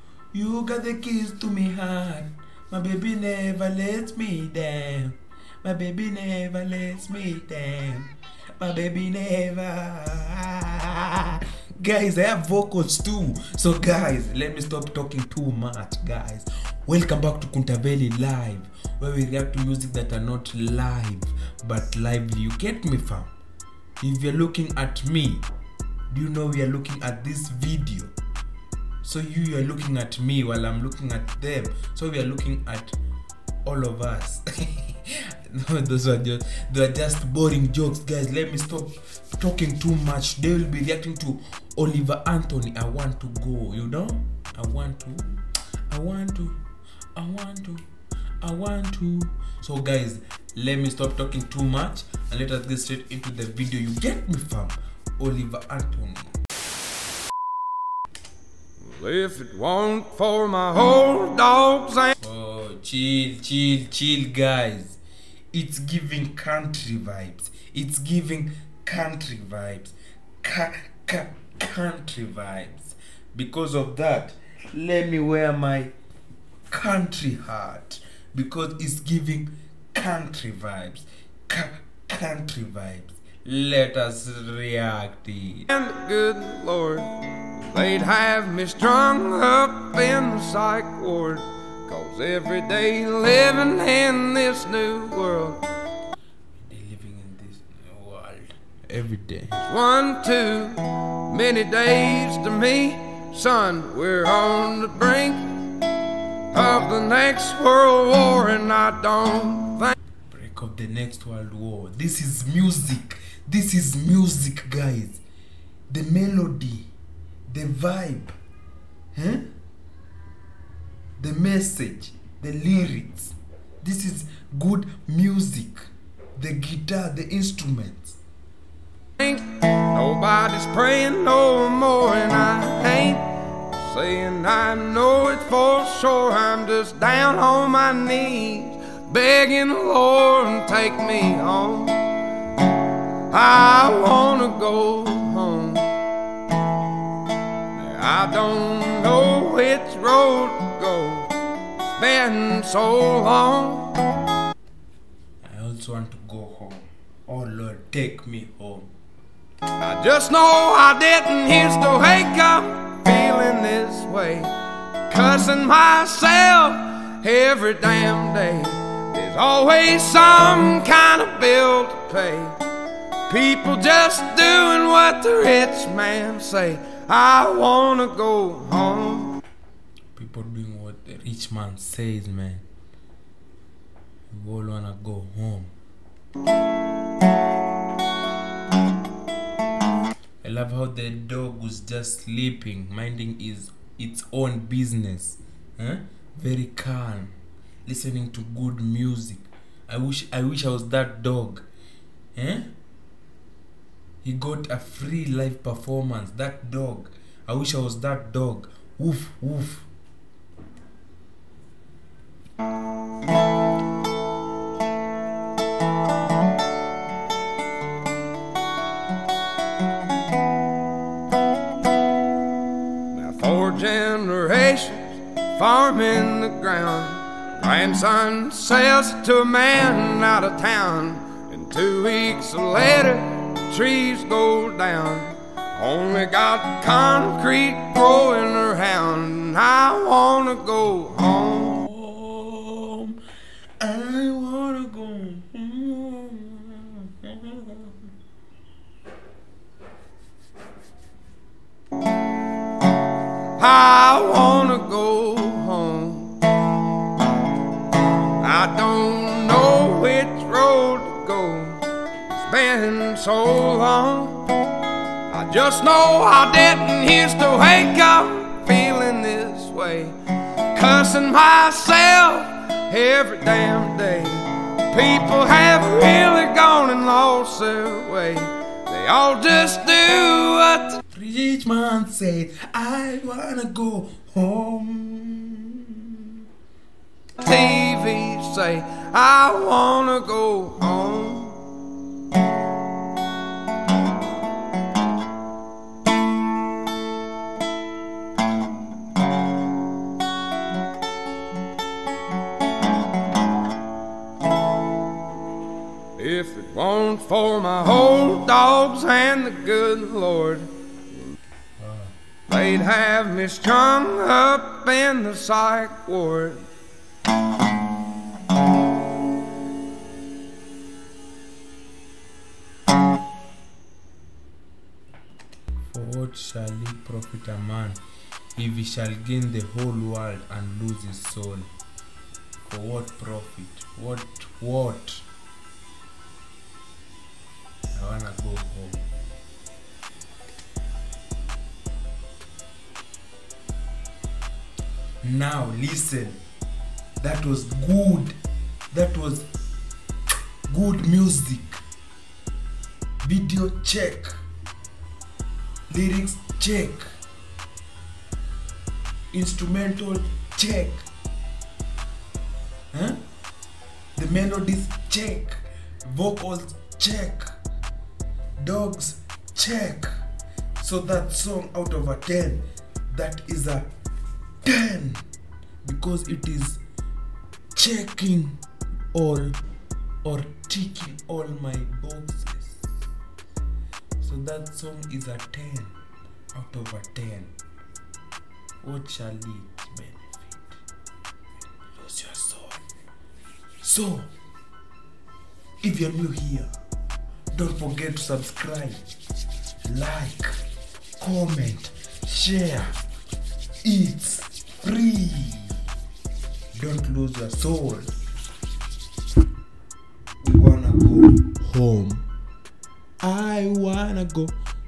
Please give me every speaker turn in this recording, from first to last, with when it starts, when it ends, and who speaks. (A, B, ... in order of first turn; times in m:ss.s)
0:00.3-0:23.3 A
0:24.0-0:25.4 A
0:26.1-0:28.1 A
0:29.0-0:33.0 A
0:33.6-0:46.6 A
0:47.1-0:47.8 A
0:48.4-0:56.4 A
0:58.8-1:02.1 B
1:02.2-1:05.0 A
1:05.5-1:15.9 A
1:16.7-1:25.7 A
1:25.7-1:35.6 B
1:36.6-1:39.6 A
1:39.6-1:45.6 B
1:46.5-1:49.9 B
1:50.3-1:55.2 A
1:55.9-1:56.9 A
1:57.5-1:58.3 A
1:59.1-1:59.4 A
2:01.2-2:08.2 A
2:09.2-2:22.8 B
2:23.3-2:26.0 B
2:27.7-2:34.0 B
2:35.4-2:38.9 A
2:39.8-2:44.5 B
2:45.1-2:52.6 B
2:53.3-2:59.4 B
3:00.1-3:02.6 A
3:04.3-3:05.7 A
3:10.4-3:17.3 A
3:17.8-3:21.6 A
3:22.3-3:22.7 A
3:24.2-3:29.9 A
3:43.1-4:01.8 B
4:01.7-4:03.2 A
4:03.8-4:08.0 A
4:13.6-4:16.4 B
4:18.4-4:24.6 B
4:25.3-4:41.0 B
4:41.1-4:46.4 A
4:47.4-4:51.6 B
5:06.2-5:10.7 B
5:11.8-5:12.1 A
5:12.5-5:16.6 B
5:25.9-5:28.0 A
5:28.6-5:31.7 A
5:32.6-5:35.2 A
5:37.9-5:39.0 A
5:45.2-5:46.4 A
5:47.2-5:48.4 A
5:48.9-5:49.4 A
5:50.7-5:51.8 A
5:53.2-5:54.4 A
5:55.9-5:57.1 A
5:59.3-6:01.0 A
6:02.9-6:03.2 A
6:04.2-6:07.5 A
6:08.6-6:10.1 A
6:10.8-6:13.8 A
6:14.6-6:15.2 A
6:15.8-6:16.8 A
6:17.7-6:18.6 A
6:19.1-6:19.6 A
6:20.2-6:22.9 A
6:24.2-6:25.9 A
6:26.5-6:27.5 A
6:28.8-6:30.8 A
6:31.9-6:32.8 A
6:33.8-6:34.3 A
6:35.8-6:36.7 A
6:37.5-6:39.0 A
6:39.8-6:40.6 A
6:41.2-6:42.9 A
6:43.8-6:45.8 A
6:46.7-6:48.1 A
6:50.4-6:52.2 A
6:53.2-6:54.5 A